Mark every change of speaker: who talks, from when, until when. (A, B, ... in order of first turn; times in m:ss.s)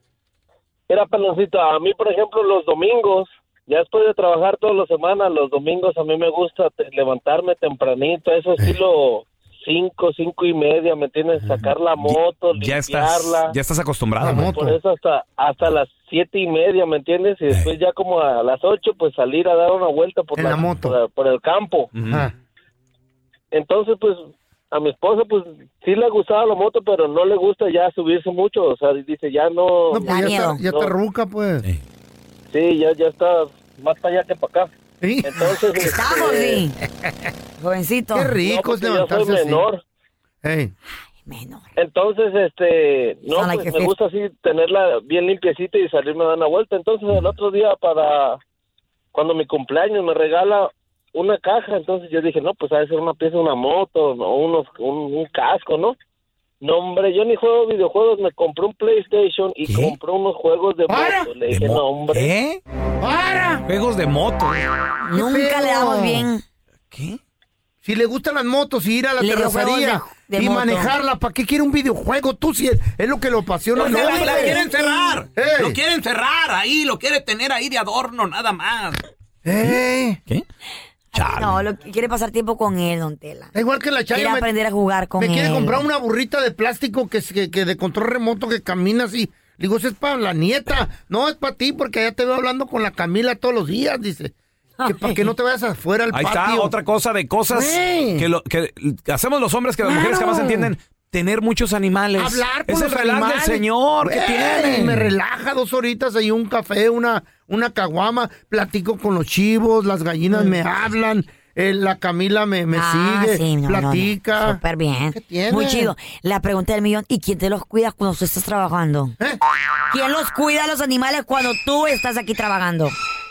0:00.9-0:13.5 A
0:12.0-0:14.6 B
0:14.2-0:14.7 C
0:14.4-0:21.9 A
0:20.4-0:20.9 C
0:21.9-0:22.3 B
0:23.5-0:30.9 A
0:29.9-0:31.6 C
0:30.0-0:30.6 D
0:32.5-0:34.7 A
0:35.0-0:35.3 C
0:35.2-0:36.6 A
0:35.7-0:36.8 D
0:37.6-0:38.3 D
0:38.2-0:39.6 C
0:38.4-0:39.8 A
0:40.4-0:40.7 C
0:41.3-0:41.7 D
0:41.8-0:48.4 A
0:43.4-0:43.9 D
0:49.1-0:56.0 A
0:56.6-1:02.3 A
0:59.7-1:00.0 B
1:00.9-1:01.2 C
1:01.5-1:02.6 B
1:03.0-1:03.6 C
1:03.7-1:04.6 B
1:05.0-1:06.4 D
1:05.1-1:06.3 C
1:06.9-1:07.2 B
1:07.8-1:14.6 C
1:09.2-1:10.9 D
1:13.8-1:15.2 D
1:13.9-1:14.5 B
1:14.0-1:19.0 E
1:15.4-1:15.8 C
1:19.4-1:20.2 C
1:21.2-1:21.6 B
1:21.2-1:23.5 D
1:23.5-1:24.5 C
1:24.1-1:25.8 D
1:25.2-1:34.3 C
1:34.8-1:35.2 D
1:34.8-1:36.7 C
1:36.1-1:45.1 B
1:37.5-1:38.3 C
1:40.1-1:40.4 C
1:42.2-1:54.6 C
1:52.7-1:59.2 D
1:55.1-1:55.9 C
1:59.9-2:03.0 D